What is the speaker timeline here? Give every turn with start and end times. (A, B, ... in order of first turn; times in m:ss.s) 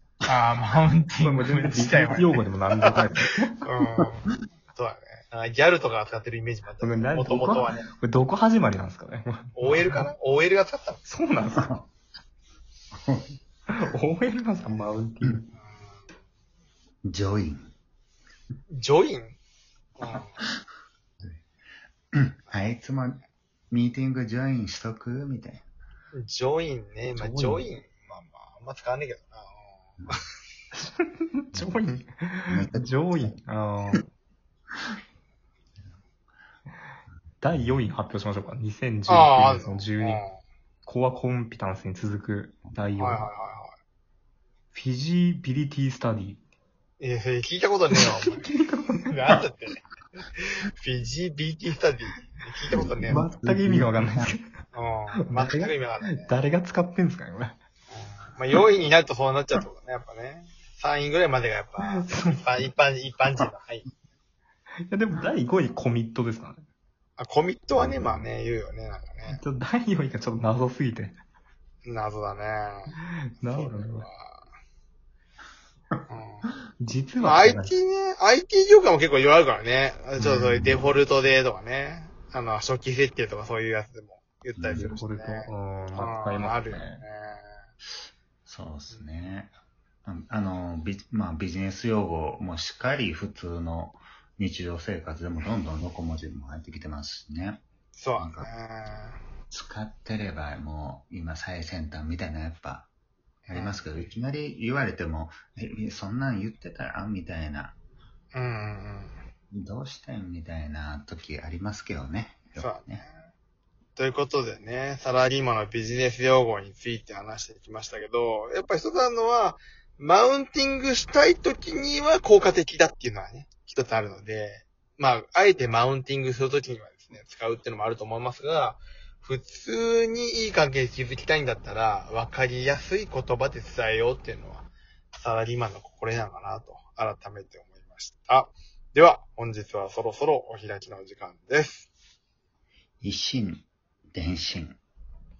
0:00.2-0:03.1 A
0:01.1-0:03.6 B
0:03.6-0:07.9 A
0:06.8-0:09.9 B
0:09.6-0:11.0 A
0:11.0-0:11.8 B
0:11.6-0:11.8 C
0:12.9-0:13.3 C
0:13.7-0:15.5 B
0:17.0-0:17.7 C
0:18.7-0:19.4 A
0:20.0-0:20.4 A
0:22.1-0:25.6 C
0:26.1-0:30.2 A
0:27.1-0:27.6 B
0:30.8-0:34.0 B
0:32.5-0:33.3 C
0:37.4-0:40.2 B
0:39.1-0:40.4 A
0:40.8-0:43.3 B
0:43.0-0:43.7 A
0:44.7-0:46.4 B
0:47.0-0:48.5 A
0:47.9-0:49.3 B
0:49.1-0:49.8 A
0:50.4-0:53.3 A
0:52.7-0:54.3 C
0:53.0-0:54.4 B
0:54.7-0:56.3 A
0:55.2-0:57.6 B
0:57.9-1:03.9 A
1:01.8-1:02.4 B
1:04.9-1:06.6 B
1:07.2-1:09.4 A
1:07.7-1:08.2 C
1:09.2-1:11.2 B
1:11.8-1:12.9 A
1:12.9-1:14.1 B
1:13.4-1:14.4 A
1:16.1-1:16.5 A
1:16.8-1:17.8 B
1:17.2-1:27.6 A
1:20.2-1:20.8 C
1:24.5-1:24.9 C
1:24.8-1:27.0 B
1:28.4-1:37.6 C
1:38.0-1:39.2 A
1:38.2-1:38.5 C
1:39.5-1:42.9 C
1:43.5-1:43.8 A
1:43.5-1:47.7 C
1:48.3-1:49.1 A
1:49.5-1:53.0 C
1:52.6-1:53.1 A
1:54.0-2:21.9 A
2:23.0-2:24.8 C